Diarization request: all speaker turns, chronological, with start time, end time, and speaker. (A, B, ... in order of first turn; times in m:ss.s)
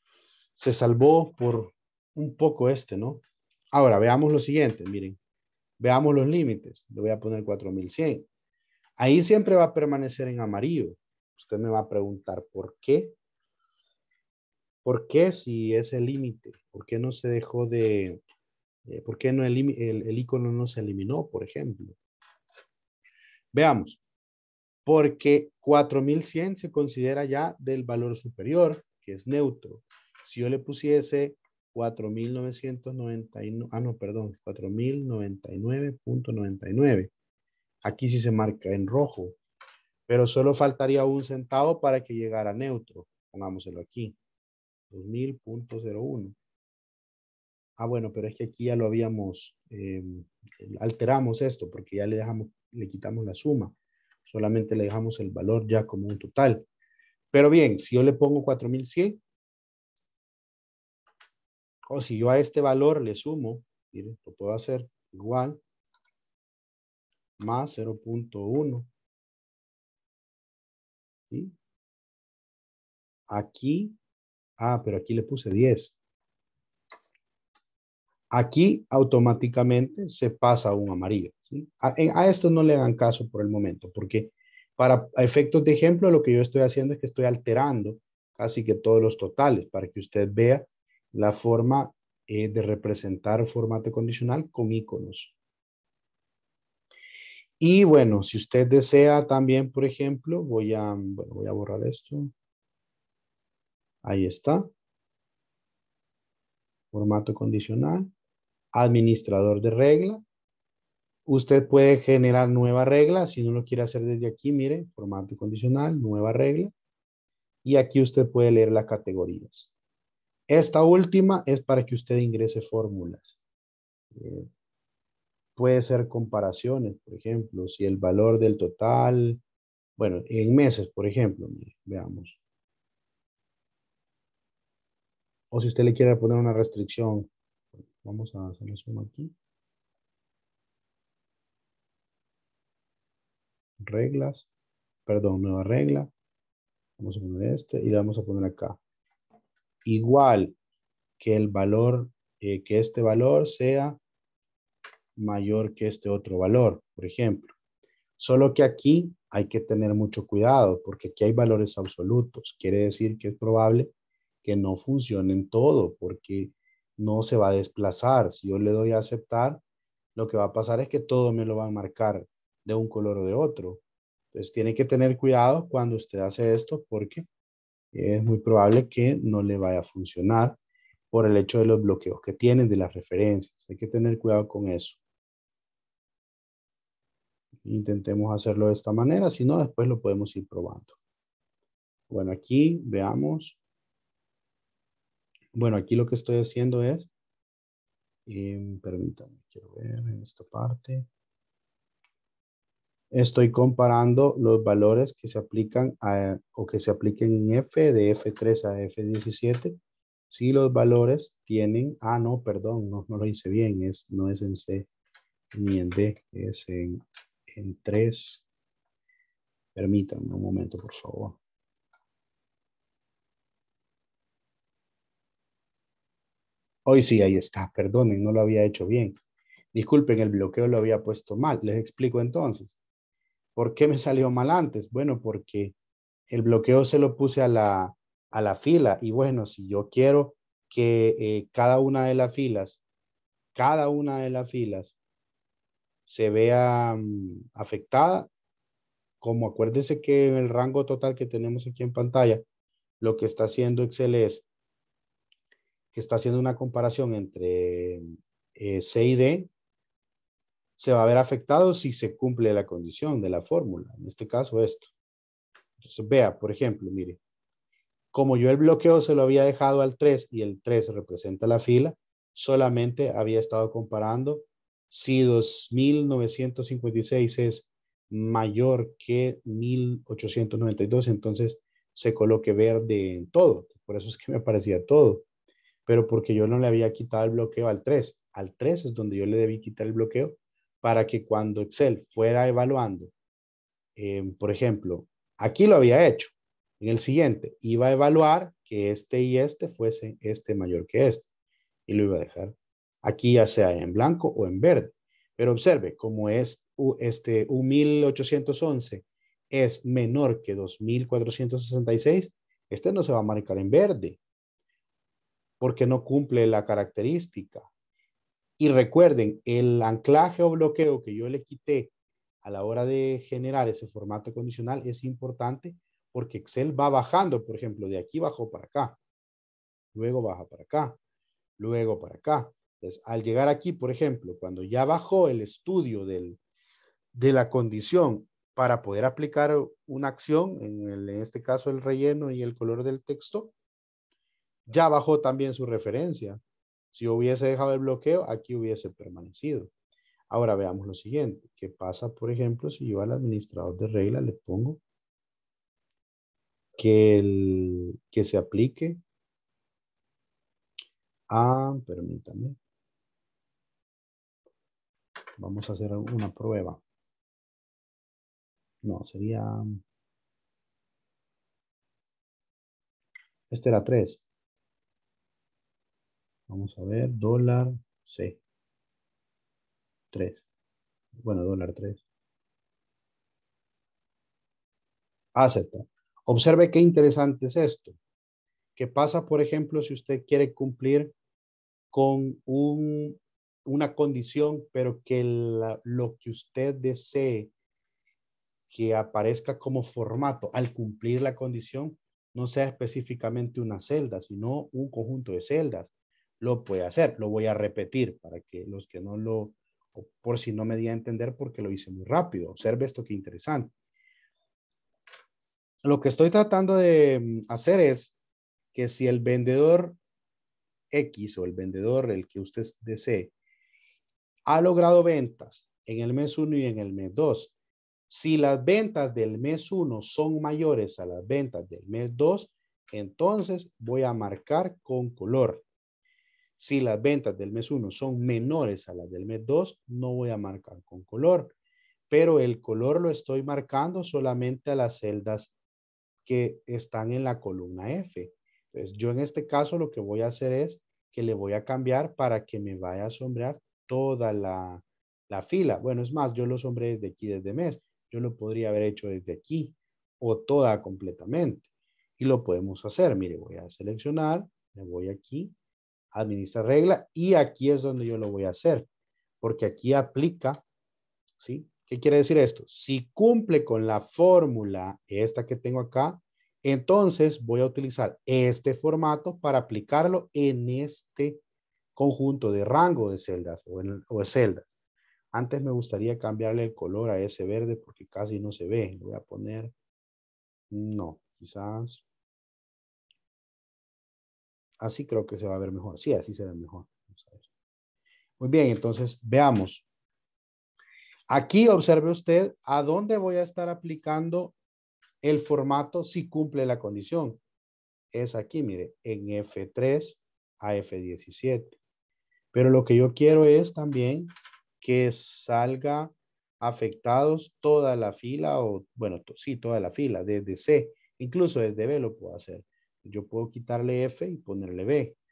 0:00.6-0:05.2 A
0:05.8-0:08.2 A
0:09.0-0:13.1 A
0:14.8-0:18.2 A
0:18.9-0:22.0 A
0:23.5-0:24.0 A
0:24.9-0:37.1 A
0:37.8-0:39.4 A
0:40.1-0:44.2 A
0:44.9-0:46.4 A
0:47.8-0:53.7 A
0:54.2-0:56.6 A
0:57.3-0:59.2 A
1:01.9-1:05.6 A
1:07.4-1:08.9 A
1:13.3-1:14.0 A
1:14.6-1:15.9 A
1:18.3-1:35.3 A
1:37.6-1:42.3 A
1:44.0-1:44.7 A
1:46.9-1:48.1 A
1:48.7-1:50.2 A
1:51.2-1:56.7 A
1:57.6-1:59.7 A
2:00.5-2:03.3 A
2:04.1-2:04.5 A
2:05.6-2:09.4 A
2:10.0-2:12.4 A
2:15.5-2:17.3 A
2:17.9-2:19.3 A
2:23.8-2:24.4 A
2:25.1-2:26.1 A
2:27.0-2:28.8 A
2:29.8-2:30.6 A
2:31.2-2:34.0 A
2:35.2-2:37.5 A
2:38.2-2:43.9 A
2:44.4-2:49.6 A
2:50.1-2:53.8 A
2:54.3-2:57.2 A
2:57.9-3:00.6 A
3:01.1-3:05.0 A
3:07.6-3:10.9 A
3:12.1-3:13.6 A
3:15.5-3:17.1 A
3:18.3-3:21.1 A
3:23.1-3:29.8 A
3:30.3-3:34.9 A
3:35.5-3:38.4 A
3:39.7-3:41.4 A
3:46.9-3:49.2 A
3:49.7-3:52.8 A
3:53.6-3:55.7 A
3:56.3-4:02.8 A
4:03.6-4:04.9 A
4:06.1-4:08.3 A
4:09.2-4:12.4 A
4:13.0-4:14.4 A
4:15.9-4:19.5 A
4:20.8-4:24.9 A
4:25.8-4:27.2 A
4:28.1-4:45.2 A
4:45.9-4:53.1 A
4:54.0-5:01.2 A
5:01.9-5:14.2 A
5:15.6-5:17.7 A
5:18.6-5:21.9 A
5:22.4-5:29.0 A
5:29.9-5:31.0 A
5:31.6-5:36.4 A
5:37.1-5:43.5 A
5:44.7-5:46.4 A
5:46.9-5:49.7 A
5:50.3-5:54.8 A
5:56.8-5:59.0 A
6:01.3-6:02.6 A
6:05.4-6:06.8 A
6:08.8-6:09.8 A
6:13.5-6:14.2 A
6:16.5-6:18.4 A
6:20.1-6:20.4 A
6:21.2-6:22.0 A
6:25.4-6:28.0 A
6:28.8-6:31.1 A
6:31.9-6:37.5 A
6:38.7-6:53.7 A
6:55.8-6:58.1 A
6:58.7-7:00.0 A
7:00.9-7:03.3 A
7:04.5-7:07.5 A
7:08.1-7:15.6 A
7:16.6-7:21.5 A
7:22.1-7:25.5 A
7:26.2-7:41.6 A
7:42.2-7:45.5 A
7:46.1-7:48.9 A
7:49.4-7:50.6 A
7:51.4-8:01.4 A
8:02.0-8:04.7 A
8:05.3-8:09.7 A
8:10.7-8:12.0 A
8:14.8-8:17.4 A
8:18.4-8:19.8 A
8:21.3-8:24.6 A
8:25.2-8:27.4 A
8:28.1-8:31.8 A
8:32.5-8:45.2 A